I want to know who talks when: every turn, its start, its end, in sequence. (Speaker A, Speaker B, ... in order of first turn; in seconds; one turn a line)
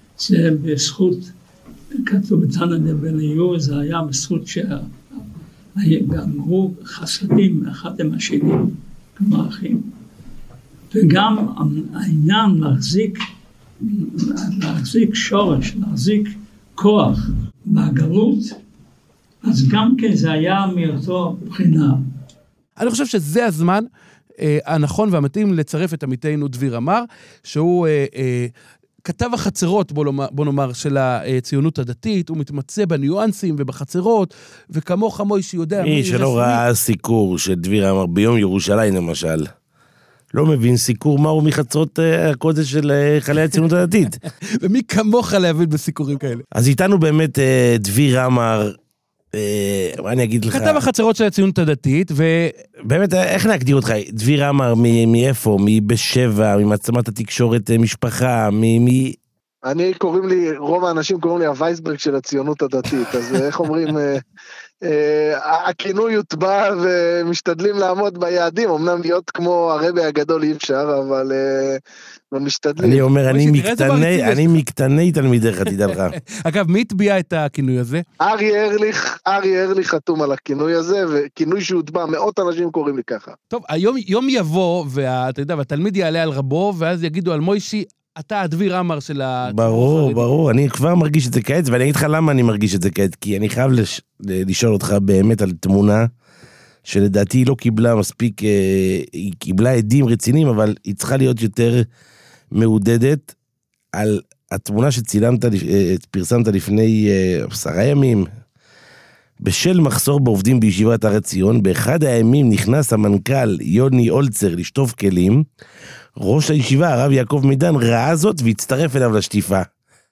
Speaker A: 0.2-1.3
Speaker A: 2.0-4.9
Speaker A: 5.8-9.9
Speaker A: 10.9-13.2
Speaker A: 13.9-18.6
Speaker A: 19.4-22.0
Speaker B: 22.8-23.9
Speaker B: 24.4-28.5
Speaker B: 29.0-36.6
Speaker C: 35.8-39.5
Speaker C: 40.3-44.2
Speaker B: 44.6-46.4
Speaker C: 46.5-48.8
Speaker C: 49.3-50.8
Speaker B: 50.5-52.6
Speaker C: 52.8-59.2
Speaker D: 59.6-64.2
Speaker D: 64.8-71.8
Speaker D: 72.3-73.0
Speaker C: 72.8-76.1
Speaker B: 73.3-74.6
Speaker B: 76.3-78.0
Speaker D: 78.2-83.4
Speaker B: 83.5-90.3
Speaker C: 89.5-96.1
Speaker C: 96.8-101.9
Speaker C: 102.5-103.3
Speaker C: 103.9-108.3
Speaker C: 109.4-115.5
Speaker C: 116.2-119.7